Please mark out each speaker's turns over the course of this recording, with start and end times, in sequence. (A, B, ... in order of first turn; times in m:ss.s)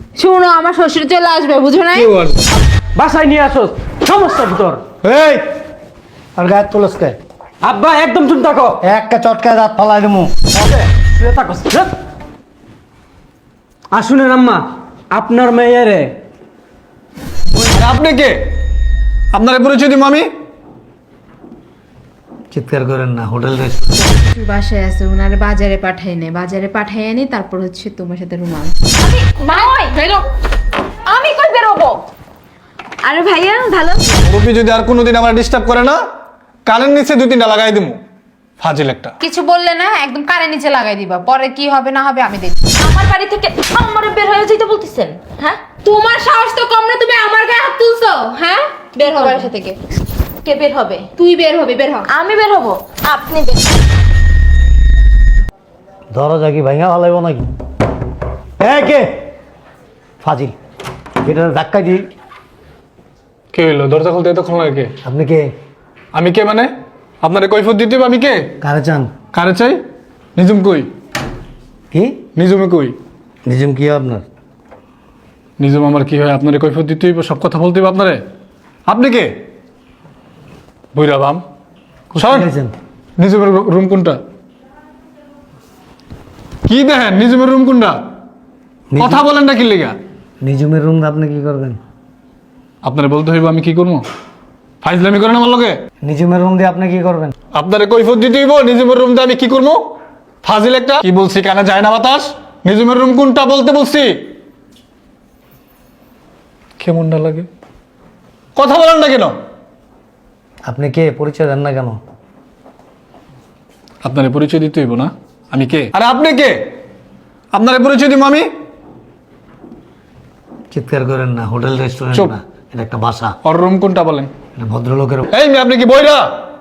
0:00.2-0:02.1 A
0:01.9-0:02.5 B
0:03.0-0:04.8 C
0:05.0-0:05.4 D
0:06.4-0:07.2 D
0:07.6-0:08.8 C
0:08.8-0:10.5 D
0:10.5-0:11.9 C
0:13.9-0:16.2 C
0:17.6-0:18.4 B
0:19.3-0:20.3 B
0:22.5-0:24.1 D
0:24.1-0:28.8 A
0:29.0-0:30.0 E
0:29.5-0:30.2 A
0:31.1-0:32.0 E
0:33.0-0:34.2 E
0:34.2-0:36.0 B
0:36.7-0:38.0 B
0:38.6-0:39.2 B
0:39.2-0:42.6 A
0:42.8-0:45.6 E
0:45.8-0:49.8 A
0:49.0-0:49.5 E
0:50.4-0:51.0 E
0:51.2-0:52.1 A
0:52.1-0:53.8 E
0:56.1-0:57.5 D
0:58.6-0:59.3 D
1:00.2-1:00.5 D
1:01.2-1:02.0 D
1:03.5-1:04.9 B
1:05.0-1:05.5 D
1:06.1-1:06.7 B
1:07.2-1:08.5 B
1:08.6-1:09.1 D
1:09.3-1:09.8 B
1:10.4-1:10.9 B
1:11.9-1:12.2 D
1:12.4-1:13.0 B
1:13.4-1:14.2 D
1:15.6-1:18.2 B
1:18.9-1:19.3 B
1:20.9-1:21.4 B
1:22.1-1:22.7 D
1:22.2-1:22.5 B
1:23.2-1:24.2 B
1:26.7-1:28.0 B
1:28.9-1:29.2 D
1:29.0-1:30.0 B
1:30.4-1:31.8 D
1:32.8-1:34.0 B
1:34.8-1:35.8 B
1:36.0-1:37.3 D
1:37.5-1:39.8 B
1:40.4-1:44.1 B
1:46.8-1:47.5 B
1:48.6-1:49.3 B
1:50.7-1:52.0 D
1:54.0-1:56.6 B
1:57.5-1:58.5 B
2:00.7-2:03.4 D
2:03.4-2:04.3 B
2:04.6-2:05.3 D
2:05.3-2:06.2 B